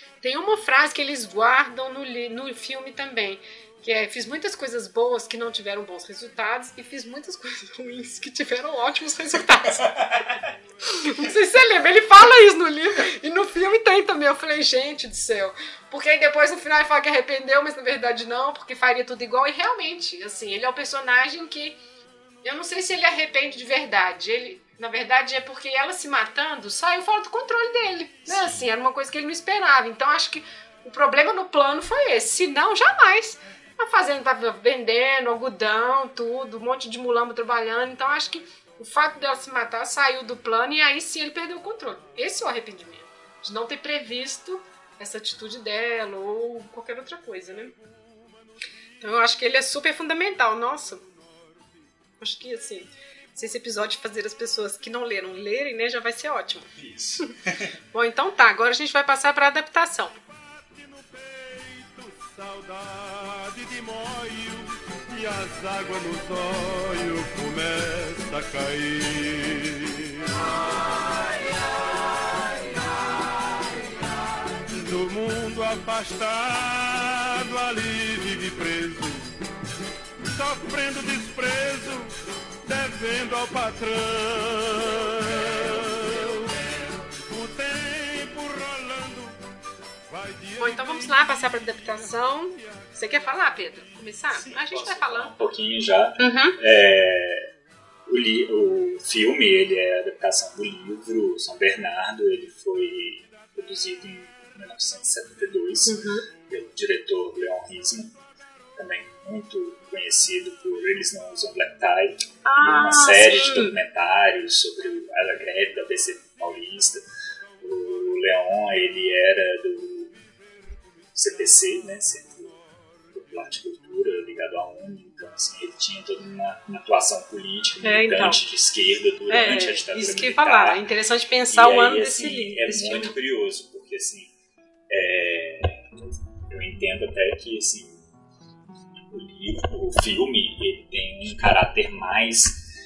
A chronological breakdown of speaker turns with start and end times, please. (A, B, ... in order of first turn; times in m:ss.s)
0:00.2-0:10.0 A
0:09.7-0:10.5 B
0:10.8-0:21.8 A
0:22.4-0:47.7 A
0:28.3-0:28.7 B
0:49.0-0:51.0 A
0:52.2-0:57.3 A
0:56.8-0:57.7 B
0:57.9-1:00.2 A
1:00.6-1:10.5 C
1:14.7-1:19.3 C
1:20.2-1:29.4 C
1:30.1-1:32.0 C
1:30.6-1:35.3 A
1:34.3-1:37.5 B
1:36.2-1:36.6 A
1:38.0-1:48.1 B
1:45.9-1:46.2 A
1:48.8-1:57.0 B
1:52.4-1:53.7 A
1:57.6-2:00.1 B
2:01.1-2:10.8 B
2:07.8-2:08.4 A
2:09.3-2:13.1 A
2:11.5-2:14.3 B
2:14.9-2:18.0 B
2:19.1-2:22.7 B